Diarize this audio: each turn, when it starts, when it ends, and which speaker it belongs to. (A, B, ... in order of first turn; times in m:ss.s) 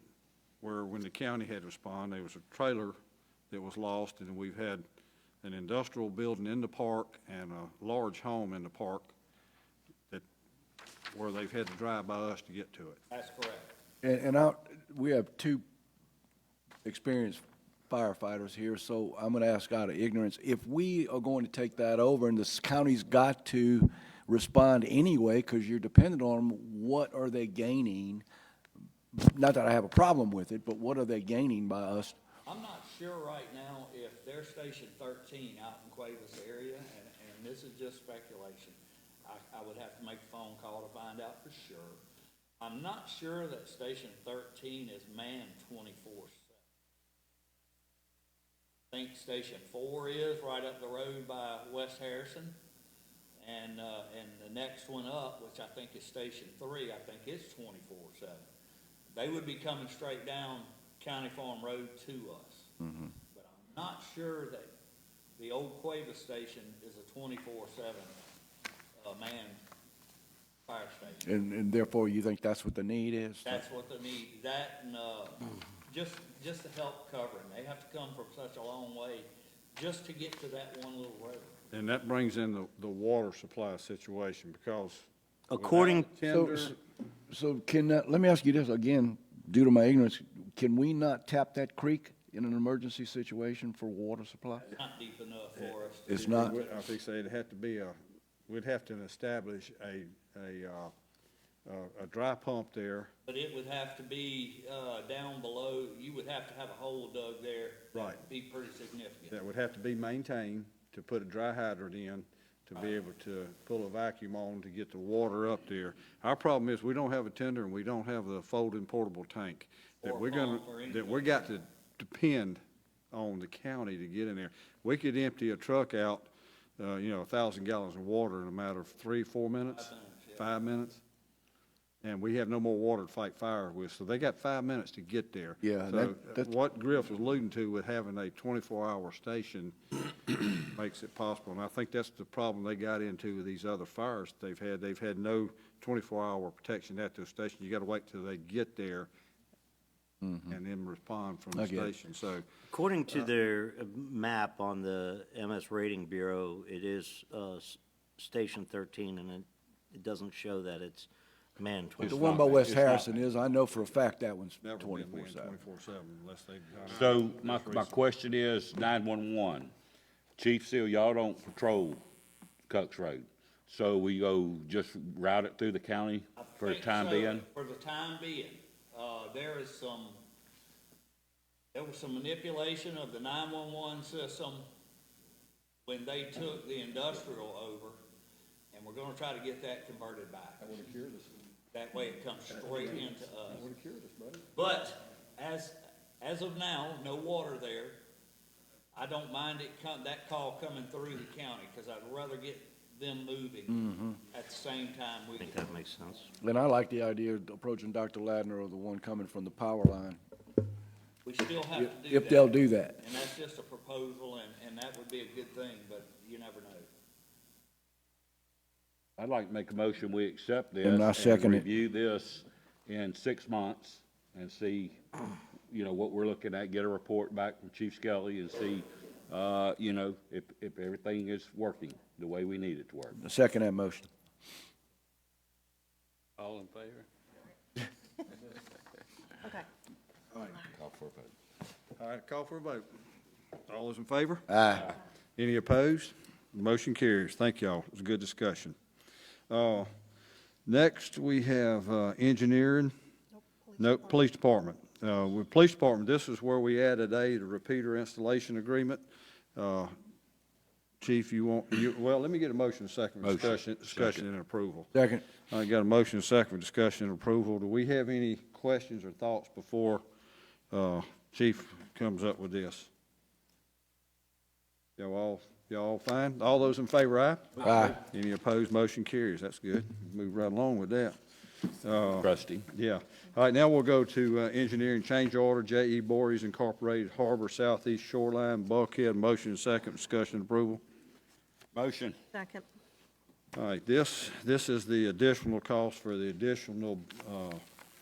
0:00.6-0:03.0 A
0:03.5-0:04.8 A
0:05.4-0:09.1 A
0:11.1-0:13.0 A
0:13.1-0:13.7 B
0:14.0-0:15.6 C
0:16.8-0:28.2 C
0:29.1-0:32.2 C
0:32.4-0:42.0 B
0:42.6-0:46.5 B
0:48.9-0:52.5 B
0:53.4-0:58.4 B
0:59.1-1:02.7 B
1:02.8-1:03.1 C
1:03.3-1:04.7 B
1:05.4-1:08.2 B
1:09.0-1:09.6 B
1:10.7-1:11.2 B
1:11.2-1:13.6 C
1:13.5-1:21.5 B
1:21.7-1:26.7 A
1:25.5-1:26.1 D
1:26.3-1:26.7 C
1:27.3-1:34.7 C
1:34.7-1:36.2 B
1:36.1-1:36.5 C
1:36.1-1:38.0 A
1:38.5-1:40.9 A
1:41.7-1:43.1 A
1:43.2-1:49.3 B
1:47.9-1:48.2 A
1:49.3-2:02.6 A
2:00.0-2:01.4 B
2:03.1-2:11.0 A
2:09.6-2:10.4 B
2:12.0-2:19.7 A
2:15.6-2:16.5 C
2:20.6-2:29.1 A
2:30.2-2:30.6 C
2:30.5-2:32.4 A
2:31.5-2:31.9 C
2:32.7-2:42.8 D
2:42.0-2:43.1 E
2:42.0-2:45.5 C
2:44.6-2:47.9 A
2:46.9-2:49.7 E
2:50.4-2:52.0 E
2:52.7-2:57.4 E
2:56.4-3:00.2 B
3:01.7-3:04.6 B
3:05.9-3:08.0 B
3:08.7-3:10.6 B
3:10.6-3:11.3 A
3:11.7-3:13.6 B
3:12.6-3:14.5 A
3:14.5-3:18.0 B
3:18.9-3:23.8 B
3:23.7-3:24.2 C
3:24.3-3:25.6 B
3:25.4-3:26.3 D
3:26.4-3:30.2 C
3:31.2-3:32.5 B
3:31.7-3:33.0 C
3:33.0-3:36.9 B
3:39.2-3:53.2 E
3:40.8-3:41.6 C
3:53.1-3:54.1 C
3:56.4-3:57.0 E
4:00.6-4:01.3 E
4:02.0-4:02.8 A
4:03.7-4:08.8 A
4:04.5-4:04.9 C
4:09.5-4:09.9 A
4:10.6-4:12.9 A
4:13.8-4:19.0 A
4:19.5-4:19.9 A
4:21.0-4:24.9 A
4:23.2-4:24.2 E
4:24.9-4:25.2 C
4:25.5-4:30.0 A
4:30.7-4:32.9 A
4:35.0-4:41.2 A
4:37.6-4:38.0 C
4:41.8-4:50.8 A
4:42.2-4:42.7 E
4:51.7-4:52.2 E
4:53.5-4:57.6 A